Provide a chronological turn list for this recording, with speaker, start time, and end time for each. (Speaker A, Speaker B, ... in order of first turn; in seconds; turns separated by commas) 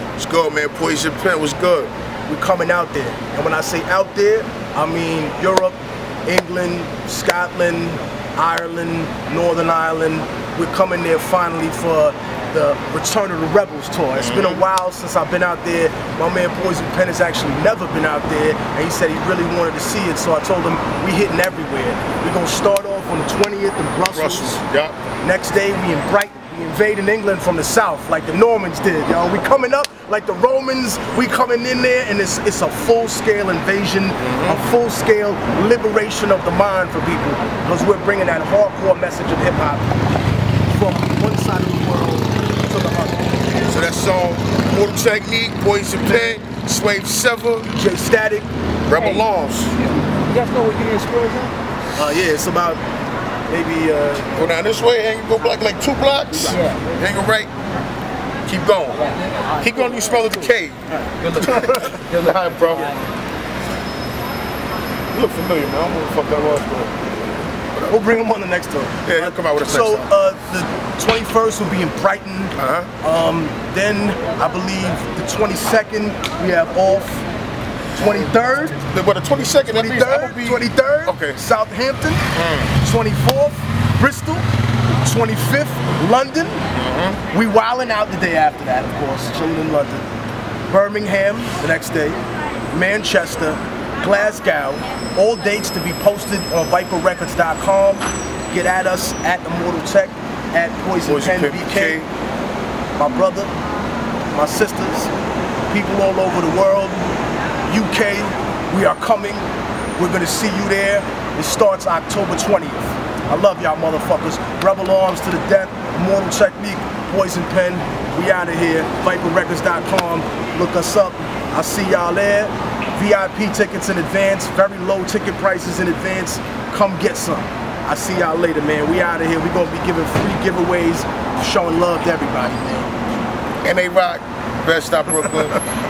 Speaker A: 0.2-1.9, Speaker B: 2.3-24.6, Speaker A: 14.1-14.6, Speaker A: 24.1-25.0, Speaker B: 25.2-39.9, Speaker A: 34.2-34.6, Speaker B: 40.7-43.4, Speaker A: 43.6-47.7, Speaker B: 47.7-48.5, Speaker A: 48.9-49.8, Speaker C: 49.0-51.5, Speaker B: 52.0-52.8, Speaker B: 53.5-54.5, Speaker A: 54.3-57.5, Speaker B: 56.3-56.6, Speaker C: 56.5-56.8, Speaker A: 58.5-63.0, Speaker C: 59.0-60.5, Speaker C: 61.0-63.0, Speaker A: 65.1-67.0, Speaker B: 67.8-77.2, Speaker A: 69.0-70.1, Speaker A: 72.6-72.9, Speaker B: 77.9-78.8, Speaker A: 78.8-81.4, Speaker B: 79.6-84.4, Speaker A: 82.3-82.7, Speaker B: 85.0-86.6, Speaker A: 86.7-87.2, Speaker B: 87.3-90.0, Speaker B: 90.7-92.2, Speaker B: 92.7-102.0, Speaker A: 101.0-102.1, Speaker B: 103.0-103.5, Speaker B: 104.3-105.1, Speaker B: 105.7-107.0, Speaker B: 107.7-109.5, Speaker B: 110.0-133.0, Speaker A: 133.6-135.6